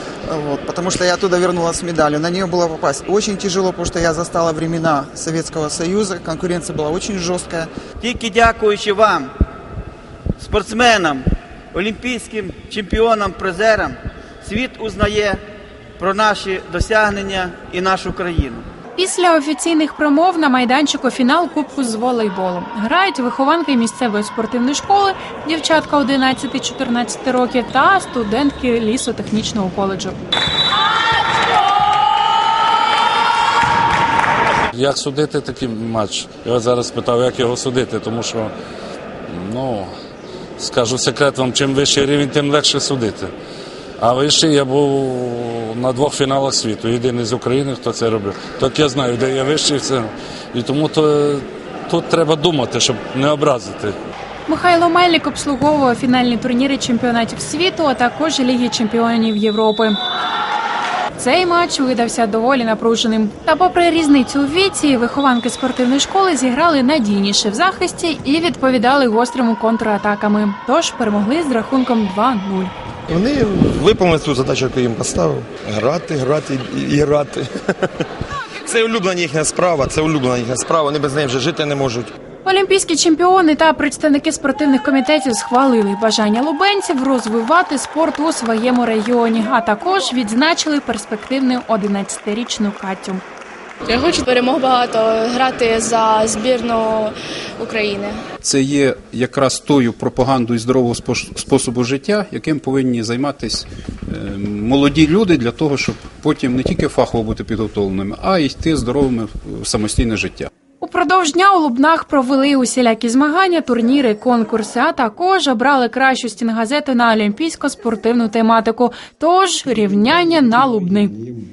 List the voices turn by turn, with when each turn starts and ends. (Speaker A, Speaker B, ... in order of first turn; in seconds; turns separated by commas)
Speaker A: 0.3-7.7, Speaker B: 8.1-9.0, Speaker B: 10.4-11.2, Speaker B: 11.8-13.9, Speaker B: 14.4-15.3, Speaker B: 16.1-18.4, Speaker C: 18.9-30.2, Speaker D: 34.7-38.5, Speaker D: 39.3-39.9, Speaker D: 40.6-43.3, Speaker D: 44.0-53.9, Speaker C: 54.5-60.0, Speaker C: 61.2-72.7, Speaker E: 73.1-77.5, Speaker E: 78.6-82.1, Speaker C: 82.4-93.2, Speaker F: 93.9-98.2, Speaker G: 98.4-110.5, Speaker C: 110.8-121.2